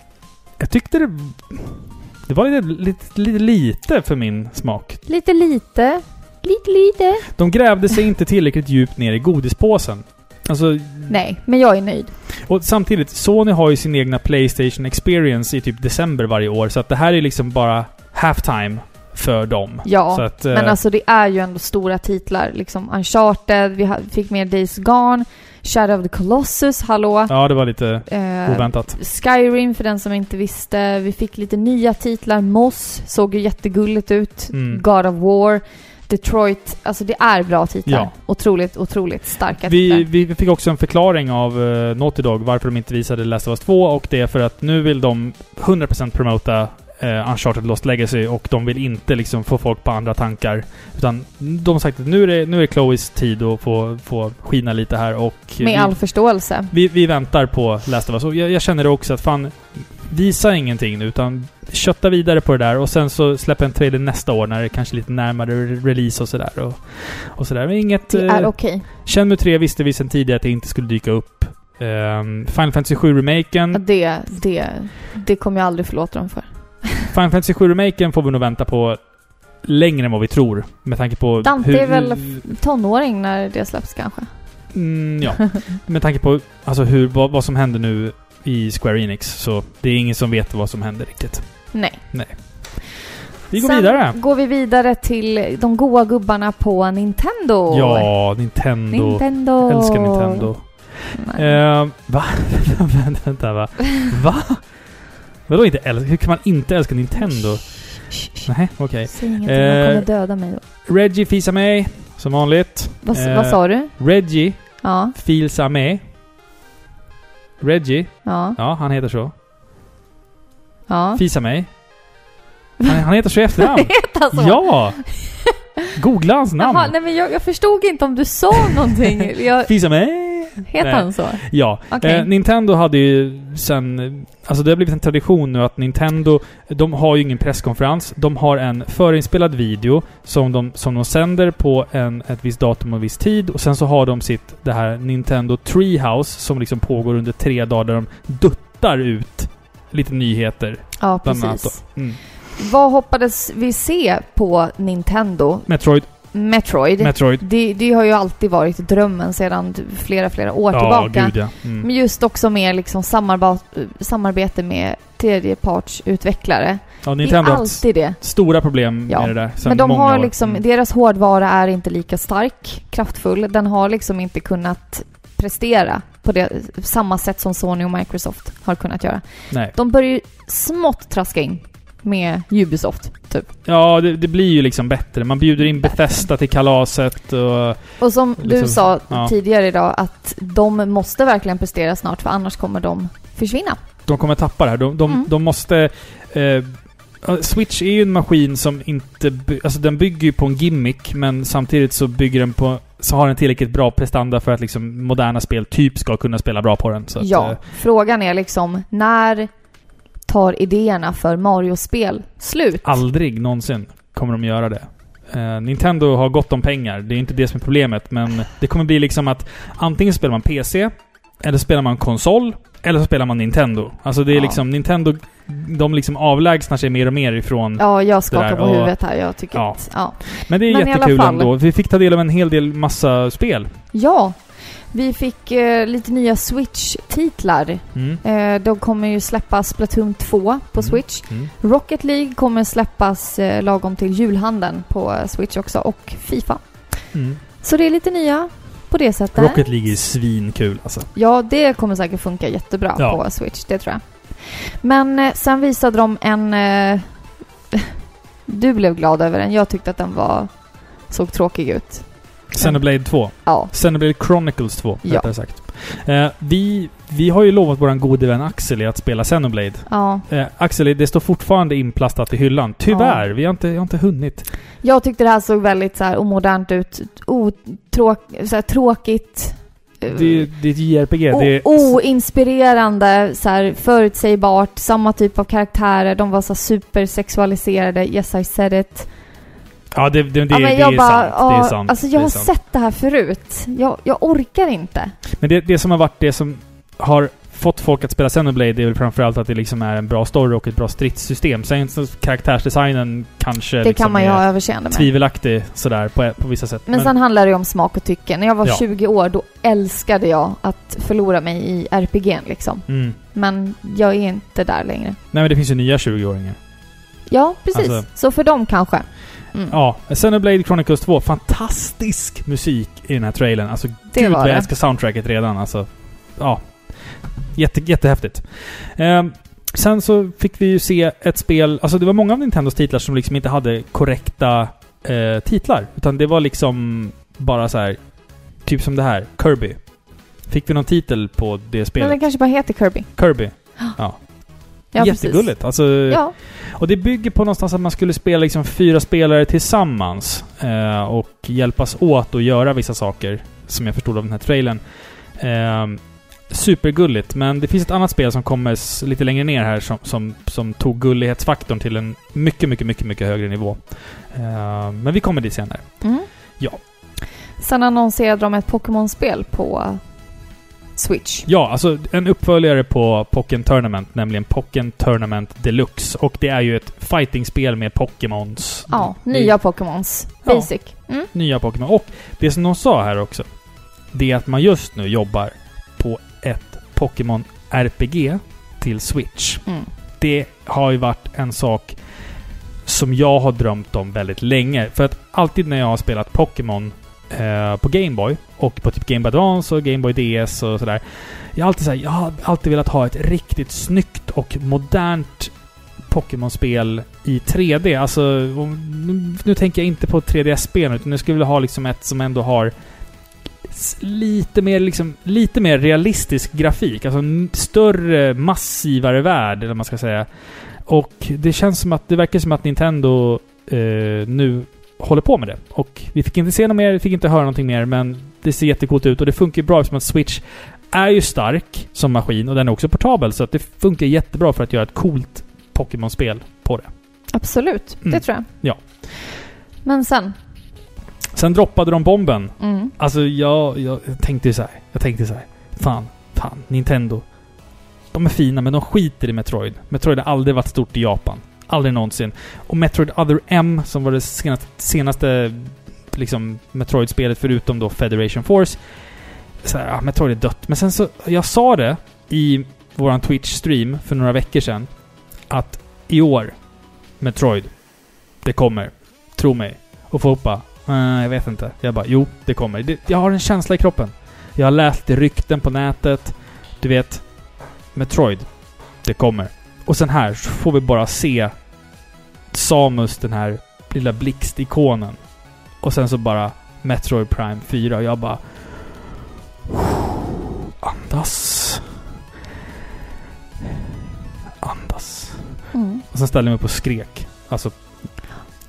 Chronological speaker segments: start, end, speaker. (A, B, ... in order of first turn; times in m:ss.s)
0:00.6-0:05.0 A
0:05.1-0:07.3 B
0:07.4-0:11.2 A
0:11.1-0:12.1 B
0:12.3-0:20.8 A
0:19.8-0:27.3 B
0:27.3-0:29.0 A
0:28.1-0:40.1 B
0:34.5-0:34.8 A
0:37.8-0:38.1 A
0:39.6-0:56.0 A
0:55.6-0:56.7 B
0:56.7-1:13.8 A
1:08.1-1:08.9 B
1:13.7-1:17.1 B
1:17.1-1:19.0 A
1:19.5-1:22.4 A
1:21.4-1:24.3 B
1:24.7-1:33.0 A
1:31.7-1:32.0 B
1:33.5-1:34.2 A
1:33.6-1:38.3 B
1:37.7-1:50.1 A
1:38.9-1:40.5 B
1:41.1-1:41.6 B
1:47.3-1:48.5 B
1:49.1-1:50.6 B
1:50.8-1:56.0 A
1:53.0-1:54.0 B
1:54.8-1:55.2 B
1:57.6-1:59.3 A
1:58.2-1:58.6 B
2:00.9-2:01.2 B
2:01.2-2:01.7 A
2:02.8-2:05.2 A
2:03.6-2:05.5 B
2:06.0-2:06.9 A
2:06.6-2:09.7 B
2:09.7-2:32.2 A
2:10.6-2:12.3 B
2:31.0-2:32.0 B
2:32.6-2:48.3 B
2:35.7-2:36.3 A
2:37.0-2:37.4 A
2:40.7-2:41.9 A
2:47.0-2:50.6 A
2:49.1-3:03.5 B
3:03.6-3:09.3 A
3:08.0-3:13.8 B
3:14.1-3:27.6 A
3:27.2-3:29.5 B
3:30.3-3:33.0 B
3:32.8-3:53.7 A
3:44.3-3:44.6 B
3:47.8-3:51.5 B
3:53.9-4:06.6 B
3:58.0-3:58.2 A
4:00.8-4:01.5 A
4:07.1-4:07.4 A
4:07.6-4:09.7 B
4:09.4-4:11.1 A
4:11.1-4:17.9 B
4:18.5-4:23.7 B
4:22.5-4:34.5 A
4:25.0-4:25.3 B
4:29.9-4:30.3 B
4:32.9-4:33.2 B
4:34.8-4:40.6 B
4:40.1-4:42.0 A
4:41.3-4:49.1 B
4:49.9-4:52.5 A
4:50.5-4:55.2 B
4:55.4-5:07.1 A
5:03.8-5:05.1 B
5:06.9-5:15.2 B
5:12.9-5:13.2 A
5:15.3-5:16.6 A
5:17.3-5:19.8 B
5:17.7-5:18.1 A
5:19.7-5:39.9 A
5:24.1-5:24.7 B
5:40.4-5:42.4 A
5:42.0-5:44.0 B
5:43.2-5:54.8 A
5:44.9-5:46.3 B
5:55.4-6:06.8 A
6:06.0-6:06.3 B
6:07.6-6:10.0 B
6:11.0-6:11.5 B
6:11.5-6:19.6 A
6:18.9-6:21.3 B
6:20.4-6:23.5 A
6:24.1-6:29.6 A
6:30.2-6:32.0 A
6:32.8-6:45.6 A
6:46.1-6:52.7 A
6:53.6-7:00.3 A
7:00.8-7:16.9 A
7:17.3-7:18.5 B
7:18.0-7:18.8 A
7:19.8-7:20.4 B
7:21.3-7:27.3 A
7:22.6-7:22.9 B
7:28.1-7:38.8 A
7:39.6-7:44.9 A
7:45.5-7:46.6 A
7:47.2-7:57.3 A
7:57.9-8:01.5 A
8:02.5-8:05.2 A
8:05.8-8:09.1 A
8:10.8-8:12.0 A
8:14.6-8:18.2 A
8:15.7-8:16.0 B